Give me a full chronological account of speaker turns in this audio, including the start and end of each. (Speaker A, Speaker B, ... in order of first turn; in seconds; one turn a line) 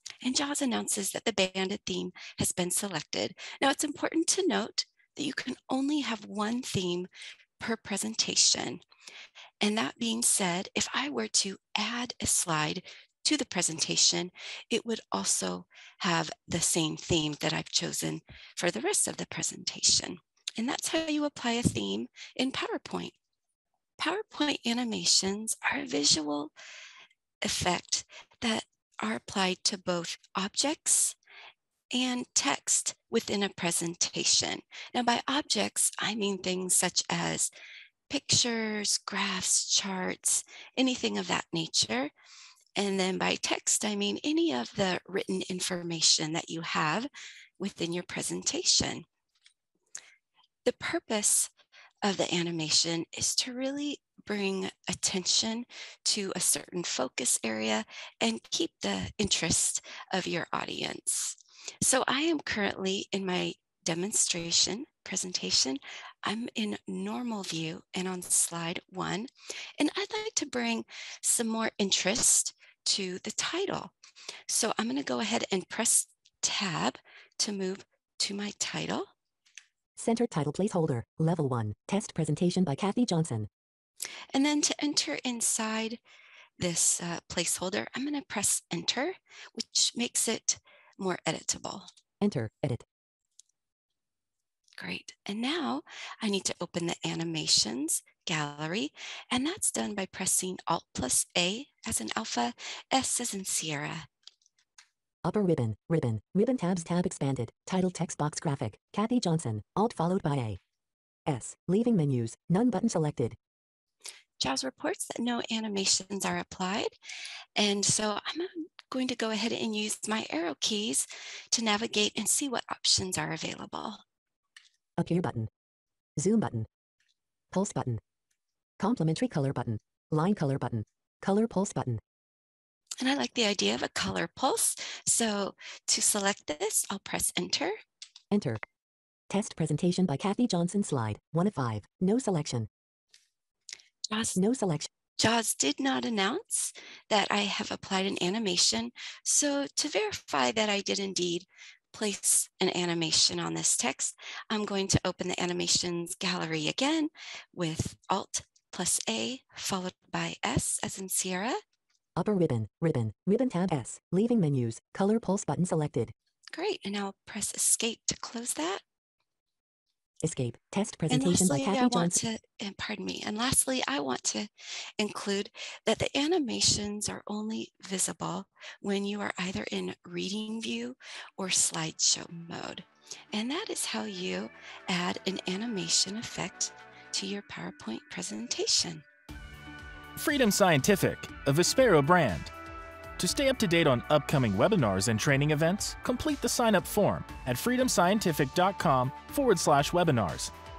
Speaker A: 0.2-8.8
Speaker A: 9.6-23.1
Speaker A: 24.0-26.5
Speaker A: 27.4-31.2
Speaker A: 31.9-37.5
Speaker A: 38.1-42.1
Speaker A: 42.8-47.1
Speaker A: 47.6-49.0
Speaker A: 50.6-51.5
Speaker A: 52.0-73.9
Speaker A: 74.5-79.1
Speaker B: 80.0-83.5
Speaker A: 84.3-86.0
Speaker A: 86.6-91.9
Speaker B: 92.2-92.9
Speaker A: 94.8-104.1
Speaker B: 105.2-110.6
Speaker B: 111.3-113.4
Speaker A: 114.4-116.9
Speaker A: 117.6-124.0
Speaker B: 125.0-125.5
Speaker B: 126.2-126.7
Speaker B: 127.5-128.0
Speaker B: 128.8-132.0
Speaker A: 133.0-137.7
Speaker B: 138.3-138.6
Speaker B: 139.3-142.7
Speaker A: 144.1-144.4
Speaker B: 144.4-144.9
Speaker A: 145.2-161.6
Speaker B: 162.2-166.1
Speaker A: 166.5-168.8
Speaker B: 170.2-172.2
Speaker A: 171.1-189.0
Speaker C: 190.2-192.5
Speaker C: 193.2-200.5